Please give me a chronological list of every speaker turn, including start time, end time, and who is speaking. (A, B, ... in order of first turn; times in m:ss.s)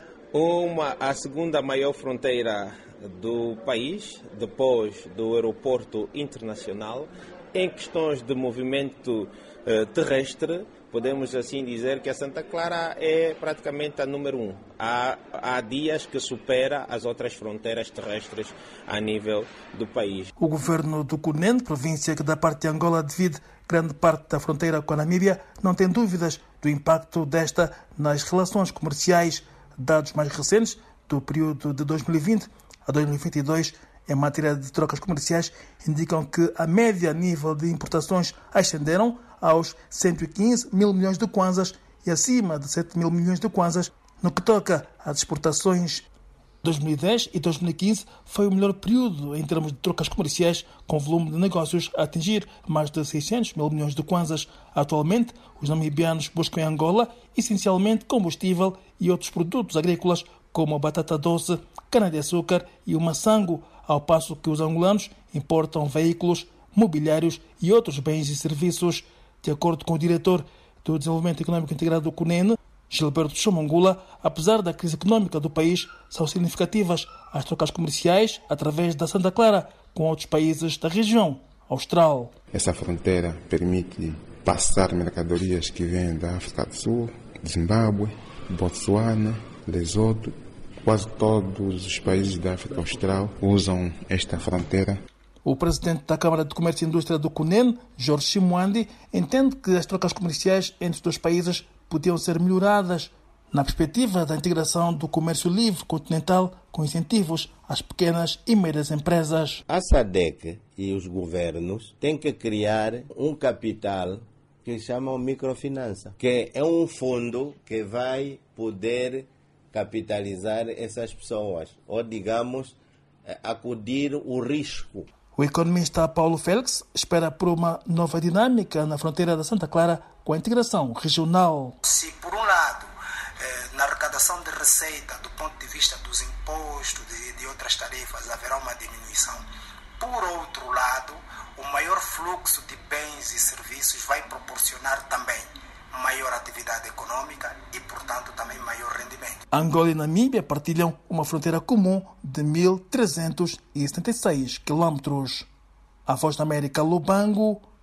0:00.3-0:20.3 A
0:20.4-0:46.1 B
0:46.6-1:22.3 B
1:22.5-1:35.0 C
1:35.4-1:49.6 B
1:49.7-2:05.1 D
2:05.4-2:11.8 B
2:11.8-2:12.9 E
2:13.4-2:19.4 E
2:20.0-2:29.4 E
2:29.5-2:35.5 B
2:36.1-2:37.6 B